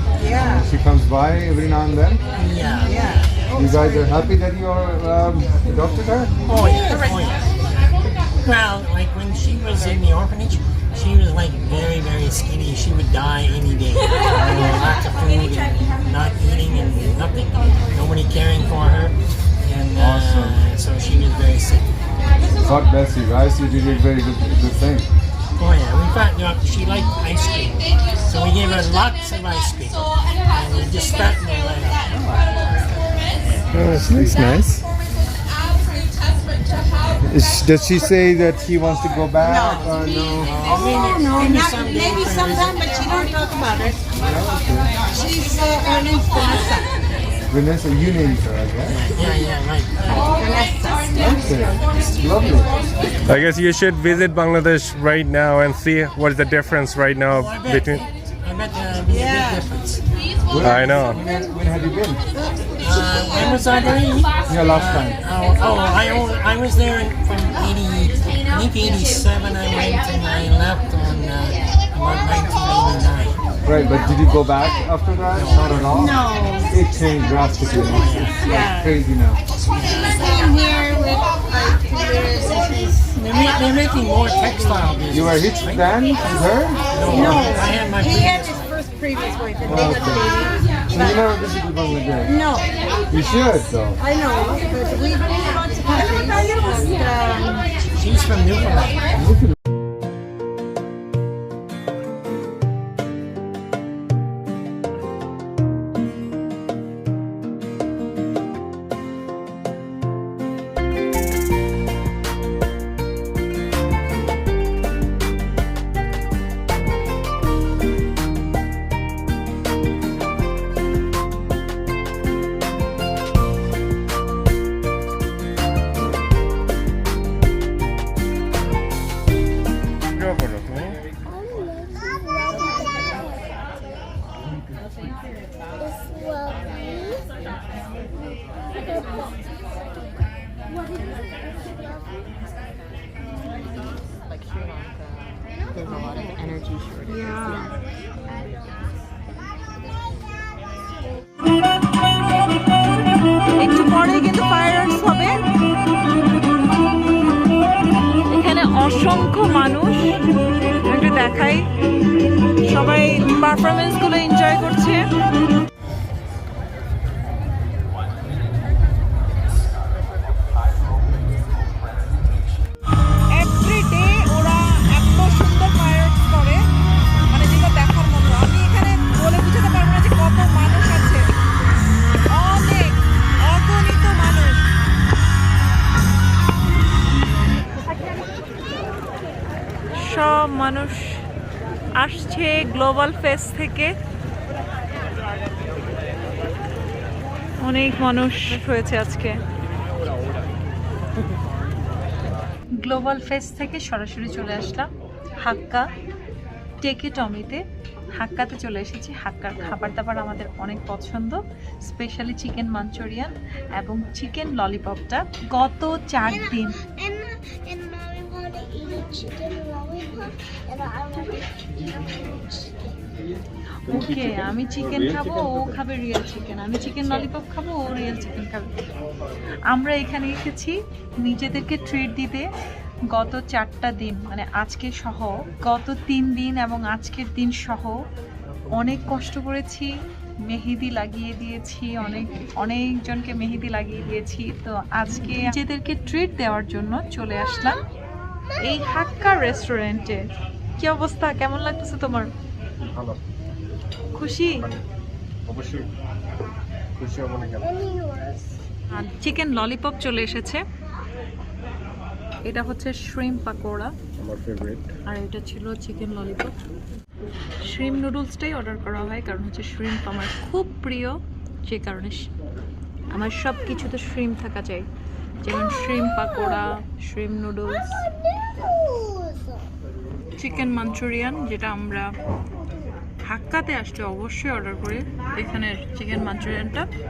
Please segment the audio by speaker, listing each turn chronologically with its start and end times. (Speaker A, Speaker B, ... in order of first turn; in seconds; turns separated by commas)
Speaker A: 0.2-0.7, Speaker B: 0.4-2.2, Speaker C: 2.4-3.4, Speaker A: 2.9-4.2, Speaker B: 3.5-6.3, Speaker C: 6.5-21.9, Speaker A: 6.7-7.2, Speaker B: 19.9-20.6, Speaker B: 22.6-25.1, Speaker C: 25.6-32.1, Speaker D: 33.8-34.8, Speaker B: 33.9-34.7, Speaker B: 37.3-40.5, Speaker A: 39.4-39.9, Speaker C: 40.4-42.9, Speaker A: 40.7-44.0, Speaker B: 44.2-45.0, Speaker A: 45.0-46.9, Speaker B: 47.5-49.0, Speaker C: 48.9-50.3, Speaker A: 50.1-51.3, Speaker B: 51.1-52.7, Speaker C: 51.7-52.1, Speaker D: 53.3-58.0, Speaker C: 57.2-60.0, Speaker A: 59.1-59.7, Speaker B: 60.5-62.2, Speaker D: 60.6-61.2, Speaker C: 62.8-73.4, Speaker B: 64.5-65.2, Speaker B: 73.6-79.4, Speaker C: 75.3-76.1, Speaker A: 75.9-76.8, Speaker C: 77.8-79.0, Speaker A: 78.4-78.8, Speaker C: 79.7-80.3, Speaker A: 80.2-83.1, Speaker C: 83.1-85.9, Speaker B: 85.1-87.5, Speaker C: 86.9-88.8, Speaker A: 87.1-91.2, Speaker B: 89.7-90.3, Speaker B: 90.9-92.3, Speaker A: 92.3-92.7, Speaker B: 93.1-94.0, Speaker A: 94.0-97.7, Speaker C: 97.9-99.1, Speaker D: 130.1-131.0, Speaker E: 144.3-147.7, Speaker F: 147.0-147.7, Speaker F: 153.6-155.3, Speaker F: 158.3-160.1, Speaker F: 160.8-161.7, Speaker F: 162.6-165.0, Speaker F: 173.3-176.6, Speaker F: 177.3-181.3, Speaker F: 182.3-184.6, Speaker F: 190.0-191.2, Speaker F: 192.0-193.9, Speaker F: 197.6-199.4, Speaker F: 202.8-204.9, Speaker F: 205.4-205.8, Speaker F: 206.8-207.6, Speaker F: 208.2-216.9, Speaker F: 223.9-228.7, Speaker F: 229.7-232.5, Speaker F: 233.1-238.0, Speaker F: 238.7-239.9, Speaker F: 240.5-247.8, Speaker F: 248.6-252.3, Speaker D: 252.9-253.2, Speaker F: 254.1-254.6, Speaker D: 255.5-255.8, Speaker D: 257.0-257.7, Speaker F: 258.9-260.6, Speaker F: 262.4-263.9, Speaker D: 264.2-264.8, Speaker F: 265.1-266.5, Speaker F: 267.7-272.3, Speaker F: 273.1-274.9, Speaker F: 275.4-278.1, Speaker F: 280.4-282.1, Speaker F: 283.2-286.9